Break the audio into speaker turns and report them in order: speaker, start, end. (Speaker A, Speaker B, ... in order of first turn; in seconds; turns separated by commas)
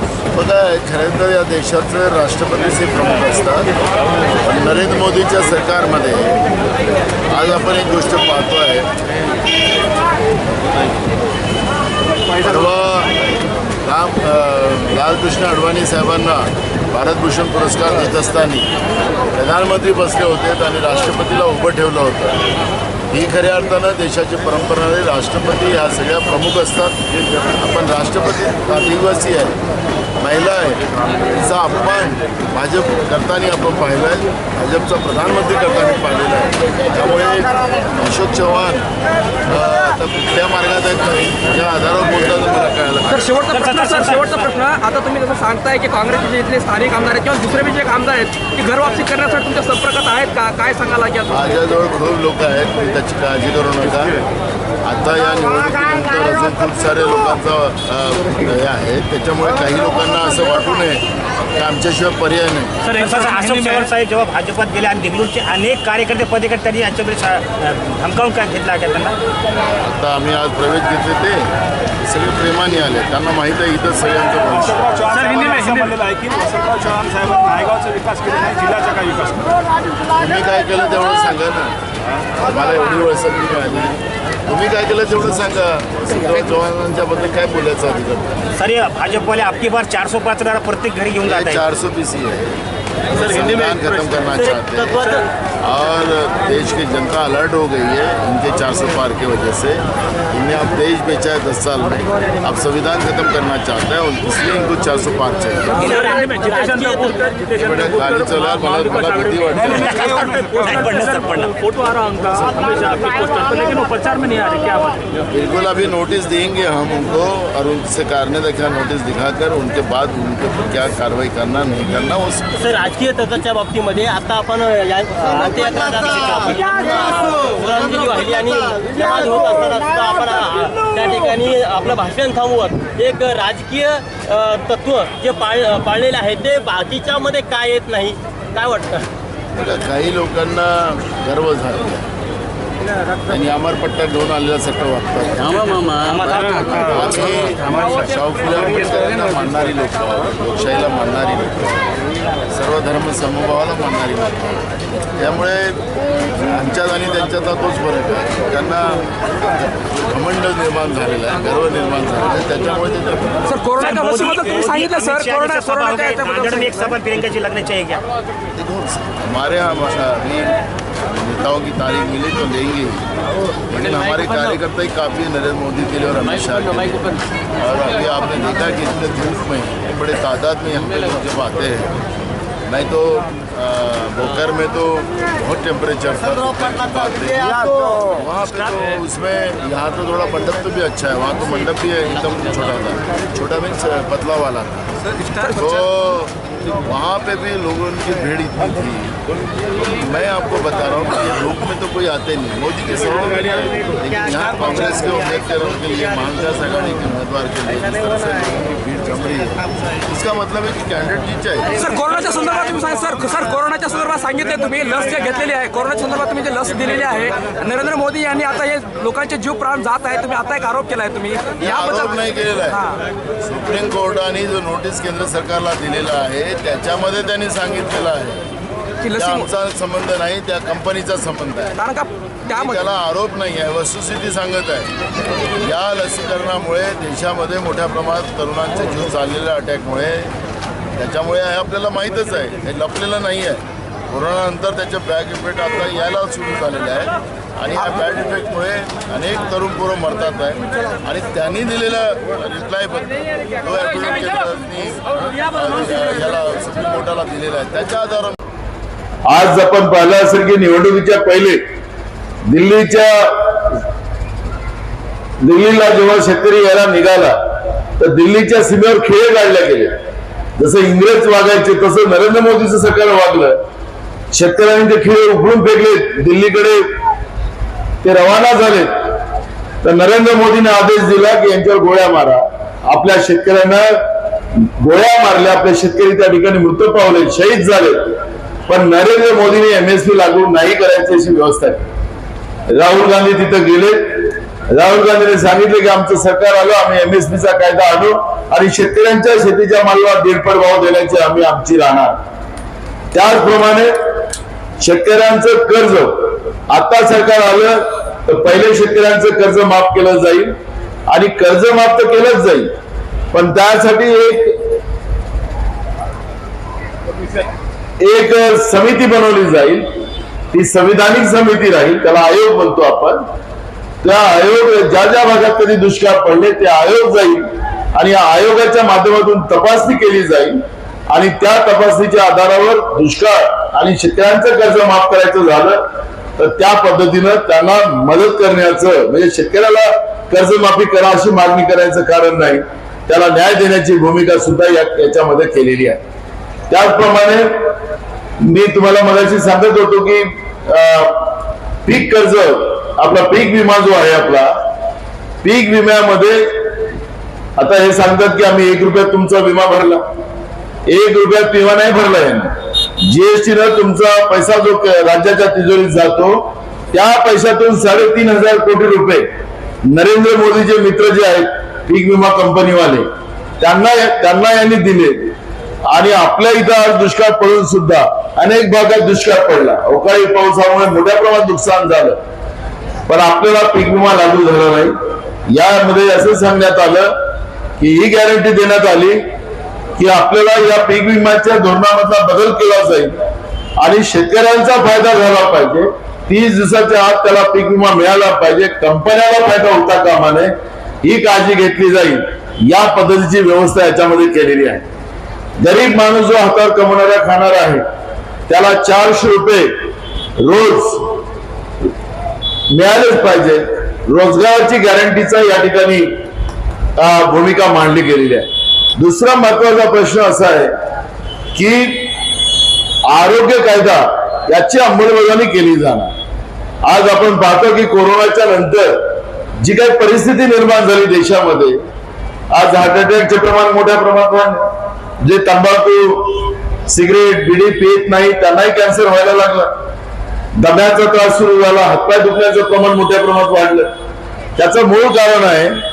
Speaker A: 0.3-3.7, Speaker A: 4.4-6.4, Speaker A: 7.3-8.9, Speaker A: 12.4-13.1, Speaker A: 13.8-18.7, Speaker A: 19.3-22.4, Speaker A: 23.1-27.0, Speaker A: 27.6-29.6, Speaker A: 30.2-38.9, Speaker A: 39.5-43.3, Speaker B: 43.0-51.5, Speaker C: 43.5-44.2, Speaker A: 51.3-54.2, Speaker A: 54.8-62.8, Speaker C: 62.8-69.1, Speaker A: 69.8-75.1, Speaker D: 74.9-79.5, Speaker C: 75.1-76.0, Speaker A: 80.1-88.4, Speaker C: 88.5-91.6, Speaker A: 91.2-92.6, Speaker A: 93.1-95.0, Speaker E: 93.1-95.2, Speaker A: 95.6-106.0, Speaker E: 105.8-107.2, Speaker B: 105.9-113.8, Speaker A: 107.6-110.0, Speaker C: 109.7-111.6, Speaker D: 110.2-110.6, Speaker D: 111.7-113.2, Speaker A: 115.3-122.5, Speaker E: 122.5-139.1, Speaker A: 139.5-142.0, Speaker A: 143.2-151.7, Speaker A: 152.5-154.6, Speaker A: 155.2-155.8, Speaker A: 156.3-163.5, Speaker B: 163.4-166.8, Speaker C: 163.8-168.0, Speaker A: 168.6-170.6, Speaker A: 171.1-173.1, Speaker A: 173.7-181.9, Speaker A: 182.7-194.7, Speaker B: 195.2-195.7, Speaker A: 195.5-211.8, Speaker B: 211.7-222.9, Speaker A: 221.6-222.9, Speaker A: 223.4-228.4, Speaker B: 229.0-229.4, Speaker A: 229.1-231.8, Speaker B: 231.8-232.9, Speaker A: 232.5-234.9, Speaker A: 235.6-240.3, Speaker A: 240.9-258.4, Speaker F: 259.3-261.6, Speaker F: 262.5-263.8, Speaker F: 265.4-267.3, Speaker F: 268.0-269.6, Speaker A: 268.7-269.9, Speaker A: 270.6-273.6, Speaker F: 270.6-271.1, Speaker F: 272.9-273.3, Speaker F: 274.3-274.7, Speaker A: 274.6-276.8, Speaker F: 275.3-276.8, Speaker F: 278.0-278.6, Speaker A: 278.0-278.9, Speaker A: 279.8-281.3, Speaker F: 279.9-283.8, Speaker A: 282.1-282.4, Speaker A: 283.4-283.8, Speaker F: 284.4-288.1, Speaker A: 287.5-287.9, Speaker F: 288.7-291.8, Speaker A: 289.3-290.5, Speaker A: 291.1-291.7, Speaker F: 292.8-302.1, Speaker F: 303.1-303.9, Speaker A: 303.2-303.9, Speaker F: 304.8-310.5, Speaker F: 311.1-312.6, Speaker F: 313.3-314.7, Speaker F: 318.0-319.8, Speaker F: 320.5-323.2, Speaker A: 321.3-321.8, Speaker A: 324.0-324.3, Speaker F: 324.1-327.4, Speaker A: 327.9-328.5, Speaker F: 328.2-330.5, Speaker A: 330.2-330.5, Speaker F: 331.1-335.8, Speaker F: 336.4-345.9, Speaker A: 336.9-337.8, Speaker A: 338.7-339.8, Speaker A: 343.7-344.3, Speaker A: 345.7-345.9, Speaker F: 346.7-347.4, Speaker F: 348.4-354.5, Speaker F: 355.4-356.2, Speaker A: 355.7-356.4, Speaker F: 357.6-360.0, Speaker F: 360.9-362.5, Speaker F: 363.1-369.2, Speaker F: 369.9-373.0, Speaker F: 373.6-375.3, Speaker F: 375.9-382.2, Speaker F: 383.1-384.9, Speaker F: 385.6-387.1, Speaker F: 387.8-389.2, Speaker F: 390.0-393.1, Speaker F: 393.8-400.5, Speaker A: 394.0-394.4, Speaker F: 401.0-404.6, Speaker A: 404.6-404.8, Speaker F: 405.6-407.8, Speaker F: 408.5-409.7, Speaker F: 410.4-411.2, Speaker F: 412.7-416.1, Speaker F: 417.0-418.4, Speaker F: 419.0-420.7, Speaker A: 421.5-421.8, Speaker F: 421.7-422.2, Speaker F: 423.1-426.1, Speaker F: 426.9-431.6, Speaker A: 431.2-431.8, Speaker F: 432.5-434.6, Speaker F: 435.2-439.7, Speaker F: 440.6-443.9, Speaker F: 444.6-445.6, Speaker A: 445.4-445.7